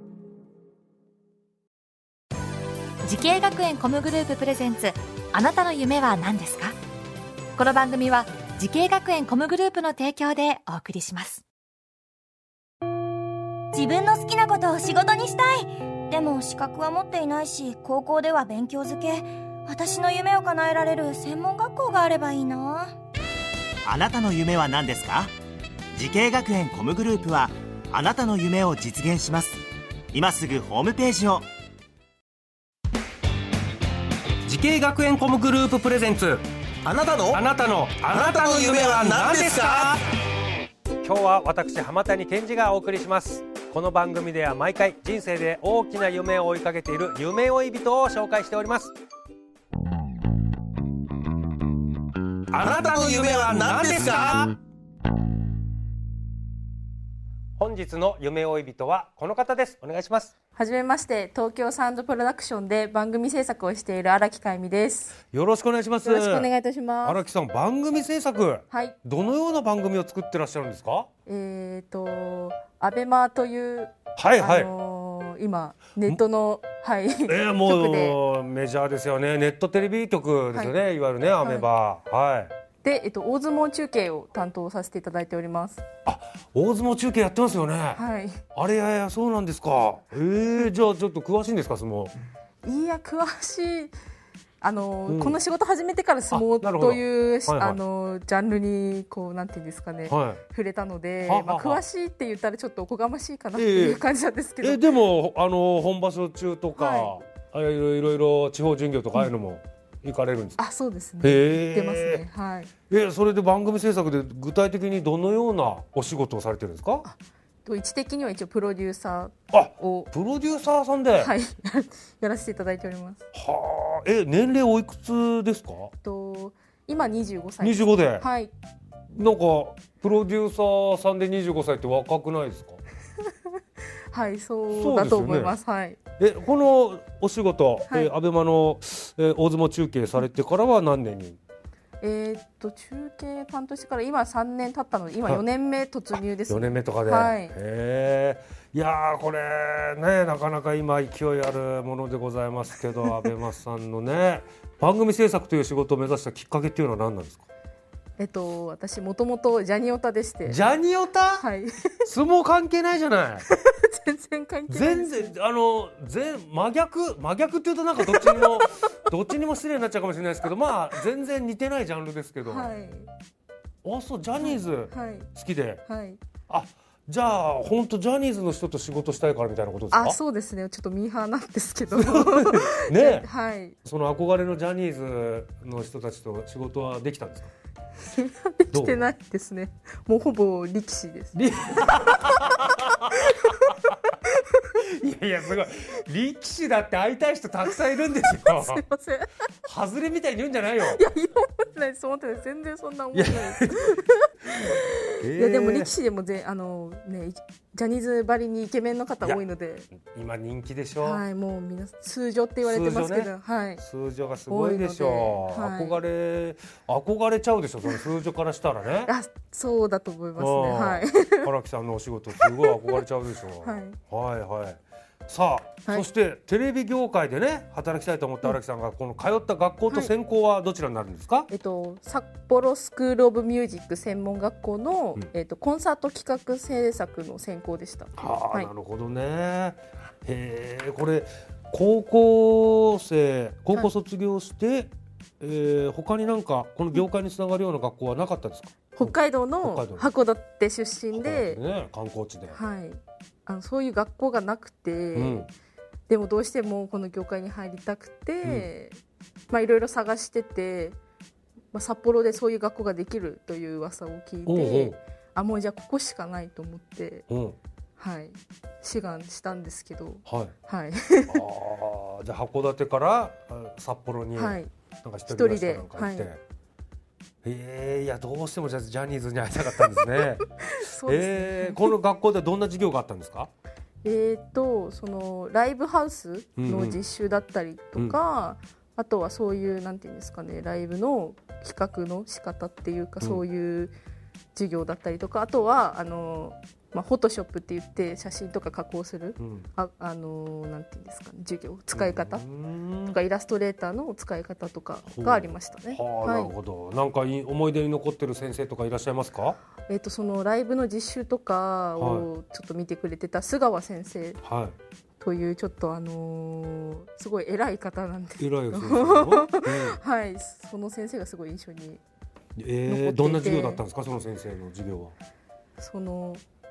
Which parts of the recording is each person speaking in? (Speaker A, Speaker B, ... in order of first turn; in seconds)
Speaker A: 3.0-6.8, 7.6-11.4
Speaker B: 13.7-23.0
Speaker C: 23.9-25.3, 25.9-31.5
Speaker D: 34.5-40.0, 41.0-48.9, 52.9-54.4, 57.6-60.3, 65.3-66.5, 67.0-71.1, 74.2-74.7, 77.3-82.5, 86.1-88.0, 88.5-92.1, 95.1-95.4, 96.3-97.8, 100.1-100.4, 101.2-101.8, 103.6-104.0, 104.6-110.6, 111.2-112.2, 112.9-117.1, 119.5-121.3, 123.3-125.9, 127.6-128.2, 129.1-132.8, 134.7-135.6, 136.2-141.4, 146.5-157.4, 160.4-161.4, 162.1-163.5, 164.7-172.7, 173.8-175.8, 176.5-180.2, 182.0-183.3, 183.8-187.5, 188.7-189.0, 191.3-193.4, 194.8-198.8, 199.7-201.0, 203.1-203.9, 205.2-205.9, 209.2-211.2, 212.6-219.1, 220.4-231.5, 238.2-250.1, 251.1-252.6, 255.2-255.5, 264.5-265.0, 267.3-267.6, 270.3-270.5, 271.3-276.4, 277.4-280.5, 281.0-283.5, 286.6-287.0, 299.4-299.7, 301.9-303.2, 305.1-309.6, 312.0-312.3, 314.4-314.8, 318.4-320.0, 322.6-325.1
Speaker E: 38.1-40.0, 52.5-54.5
Speaker F: 60.6-65.2, 66.0-67.2, 68.7-69.0, 71.3-78.2, 81.4-81.7, 82.8-85.8, 88.0-88.4, 92.6-93.9, 94.6-104.8, 106.8-107.1, 110.6-112.7, 117.0-120.1, 121.2-123.2, 126.0-128.5, 134.1-136.0, 142.0-147.6, 158.2-160.6, 161.4-161.9, 163.5-165.3, 168.0-168.7, 172.4-173.1, 174.4-175.3, 175.8-176.2, 179.9-183.8, 188.0-191.4, 198.5-199.3, 200.9-209.9, 211.0-213.8, 214.5-216.0, 219.1-221.5, 222.4-223.0, 223.6-224.0, 231.5-238.7, 249.0-251.6, 252.5-255.5, 256.1-259.0, 259.5-261.0, 261.7-267.3, 268.0-271.4, 274.4-274.7, 275.3-276.3, 280.7-281.9, 284.0-293.9, 294.5-302.4, 303.1-306.5, 309.9-314.4, 315.2-322.0, 322.9-323.8, 325.8-326.4